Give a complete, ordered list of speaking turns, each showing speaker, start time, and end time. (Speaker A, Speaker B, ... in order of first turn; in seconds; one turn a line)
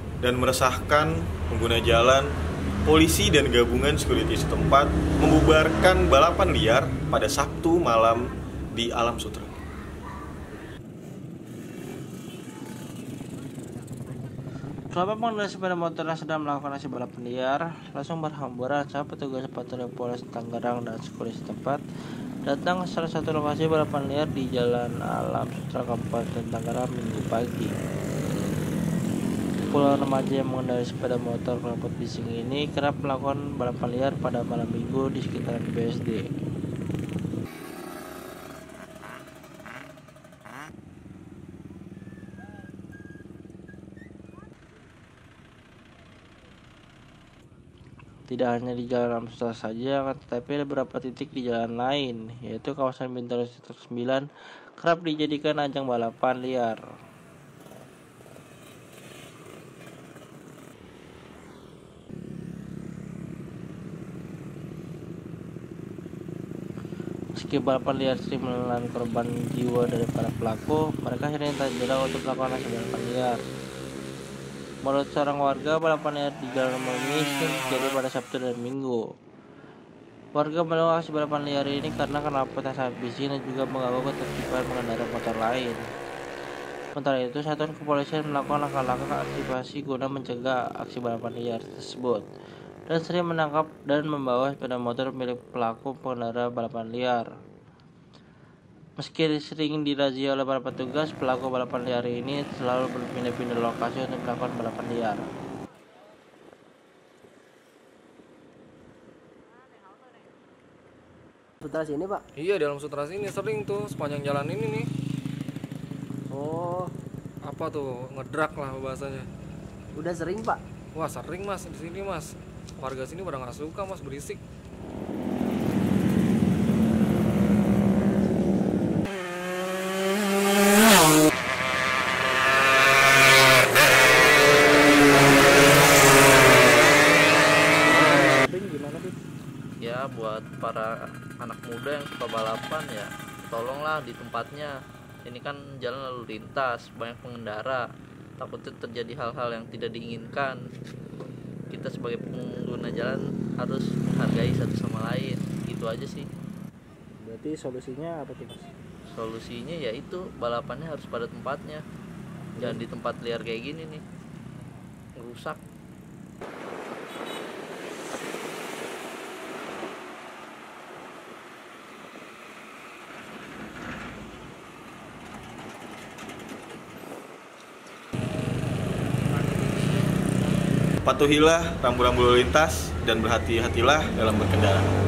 Speaker A: 0.2-2.3
Speaker A: 2.9-9.5
Speaker B: 14.9-21.8
Speaker B: 22.5-27.7
Speaker B: 29.7-36.3
Speaker B: 48.3-54.3
Speaker B: 54.8-56.8
Speaker B: 67.4-73.4
Speaker B: 74.8-79.0
Speaker B: 80.3-85.8
Speaker B: 87.0-92.3
Speaker B: 92.9-97.3
Speaker B: 99.0-105.3
Speaker C: 111.6-112.2
Speaker D: 112.4-114.9
Speaker C: 116.3-116.9
Speaker D: 117.4-119.3
Speaker C: 120.0-120.6
Speaker D: 121.0-124.4
Speaker B: 138.0-139.1
Speaker E: 139.8-144.7
Speaker E: 145.2-147.8
Speaker E: 148.4-150.6
Speaker E: 151.7-156.2
Speaker B: 157.2-158.6
Speaker E: 159.1-161.8
Speaker B: 162.6-162.8
Speaker E: 162.6-164.0
Speaker E: 165.2-165.6
Speaker A: 181.0-184.9